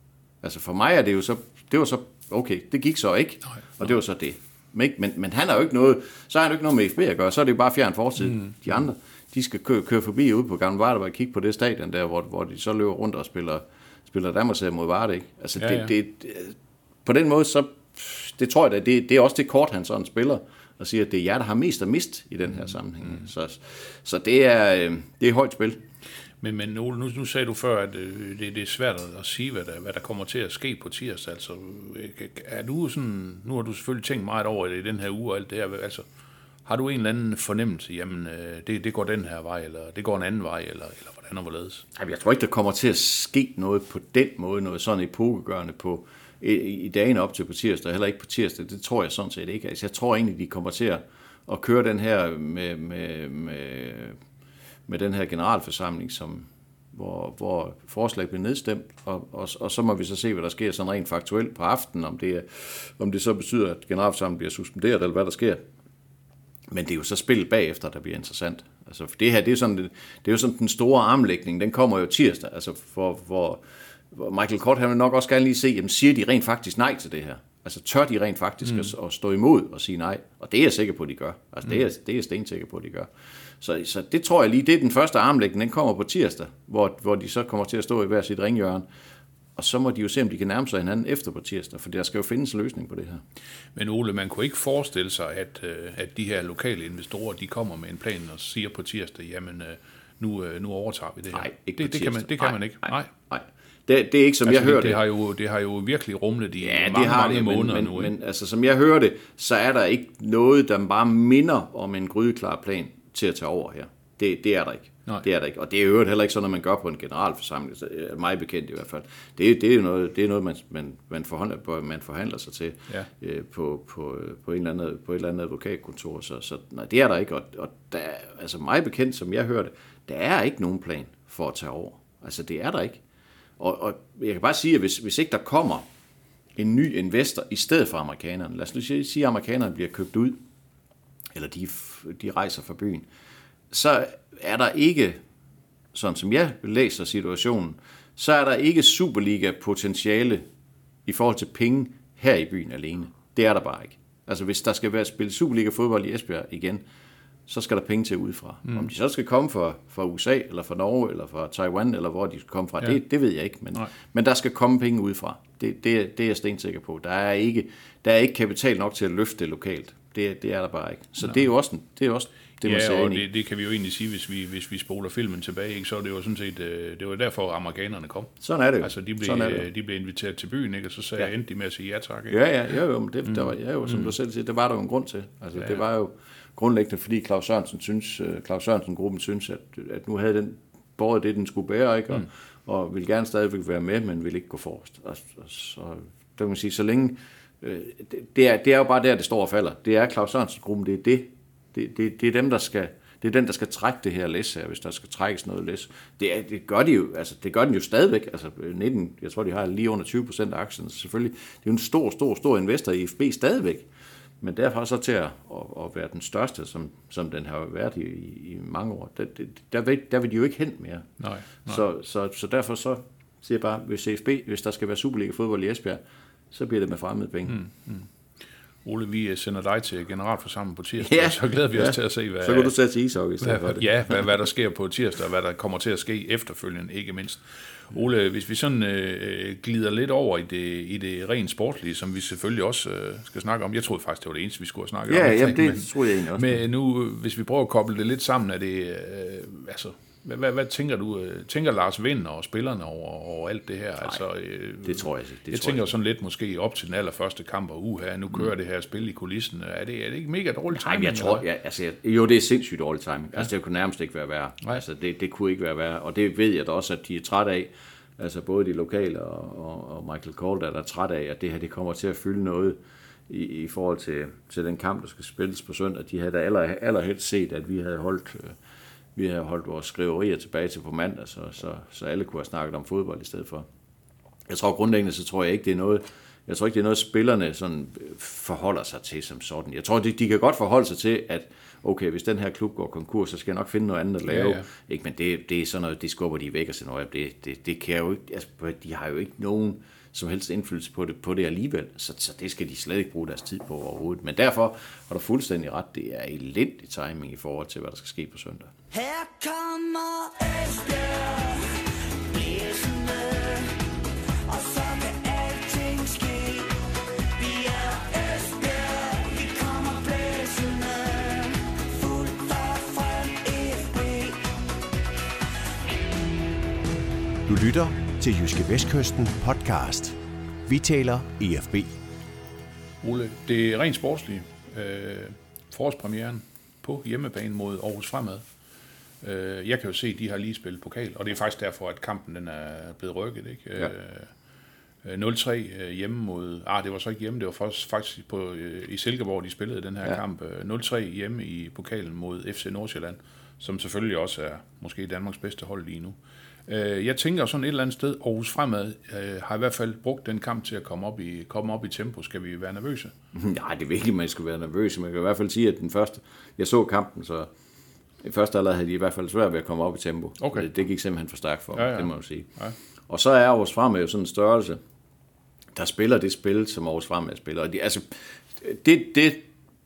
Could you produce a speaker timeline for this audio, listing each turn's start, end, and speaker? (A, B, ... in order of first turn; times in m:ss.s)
0:00.4-0:25.8 A
0:15.6-0:15.9 B
0:26.4-0:36.0 B
0:36.6-0:41.9 B
0:42.0-0:54.2 A
0:54.9-1:05.6 A
1:06.7-1:28.9 A
1:29.6-1:33.2 A
1:33.8-1:43.1 B
1:41.3-1:45.0 A
1:44.5-1:48.1 B
1:46.6-2:13.0 A
2:13.6-2:15.8 A
2:16.6-2:20.4 A
2:21.4-2:23.1 A
2:23.7-2:25.2 A
2:25.9-2:30.4 A
2:31.1-2:36.8 A
2:37.5-2:53.3 A
2:52.6-3:02.4 B
2:58.4-2:59.7 A
3:02.3-3:33.9 A
3:03.9-3:04.1 B
3:34.4-3:41.1 A
3:41.2-3:41.8 B
3:41.6-3:47.6 A
3:47.5-3:48.1 B
3:48.8-3:52.7 B
3:51.0-3:54.2 A
3:53.4-4:21.4 B
4:05.1-4:06.6 A
4:14.8-4:15.9 A
4:20.7-4:32.8 A
4:33.3-4:38.6 A
4:39.2-4:43.7 A
4:44.5-5:08.7 A
4:54.3-4:54.6 B
5:08.9-5:24.7 C
5:27.5-5:31.9 D
5:33.0-5:38.4 B
5:39.2-5:44.3 B
5:45.0-5:56.2 B
5:56.7-6:03.1 B
6:03.3-6:07.5 A
6:08.2-6:12.5 A
6:10.4-6:10.7 B
6:11.8-6:12.8 B
6:13.1-6:14.8 A
6:15.8-6:19.5 A